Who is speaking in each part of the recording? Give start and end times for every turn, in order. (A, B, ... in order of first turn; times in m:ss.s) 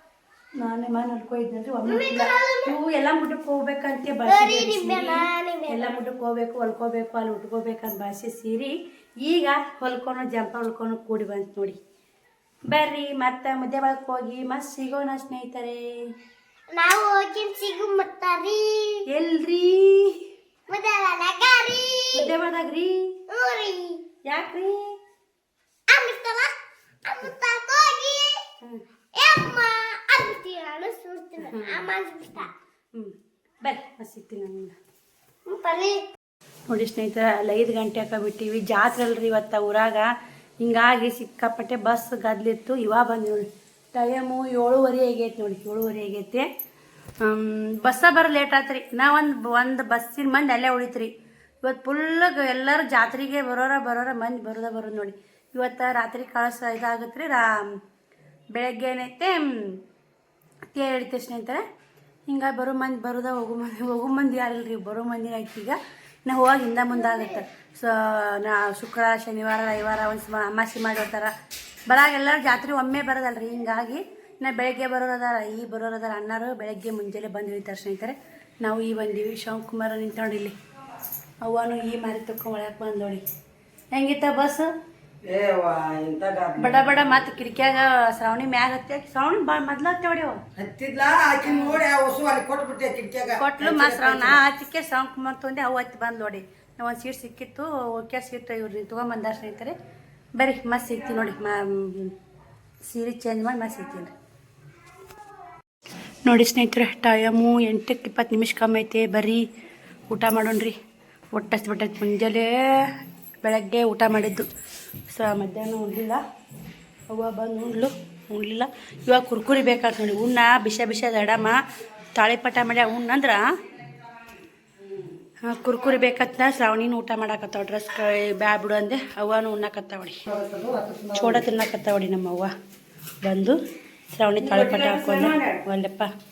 0:00.6-0:11.8 A
0:01.9-0:02.7 B
0:04.2-0:06.0 B
0:12.7-0:16.0 A
0:16.7-0:19.0 B
0:19.1-0:20.2 A
0:20.7-0:22.3 B
0:22.1-0:23.2 A
0:23.3-0:24.0 B
0:24.2-0:25.0 A
0:25.9-0:28.4 B
0:29.2-0:32.5 B
0:31.4-0:31.9 A
0:32.9-0:34.8 A
0:35.5-0:36.1 B
0:36.7-0:46.5 A
0:47.2-0:51.1 A
0:51.6-0:57.8 A
0:58.5-0:59.8 A
1:00.7-1:01.6 A
1:02.3-1:11.3 A
1:11.9-1:20.6 A
1:21.4-1:23.2 A
1:23.9-1:24.7 A
1:25.2-1:27.0 C
1:26.6-1:30.4 A
1:30.6-1:34.4 C
1:31.5-1:31.8 A
1:33.4-1:39.8 A
1:40.4-1:42.1 A
1:42.8-1:44.1 A
1:46.2-1:49.5 A
1:50.1-1:50.8 A
1:51.3-1:54.5 A
1:55.1-1:56.2 A
1:57.1-2:01.6 A
2:02.2-2:03.4 A
2:05.4-2:10.2 A
2:10.3-2:11.5 C
2:11.2-2:12.5 A
2:13.2-2:13.6 A
2:14.1-2:16.1 A
2:14.4-2:15.6 C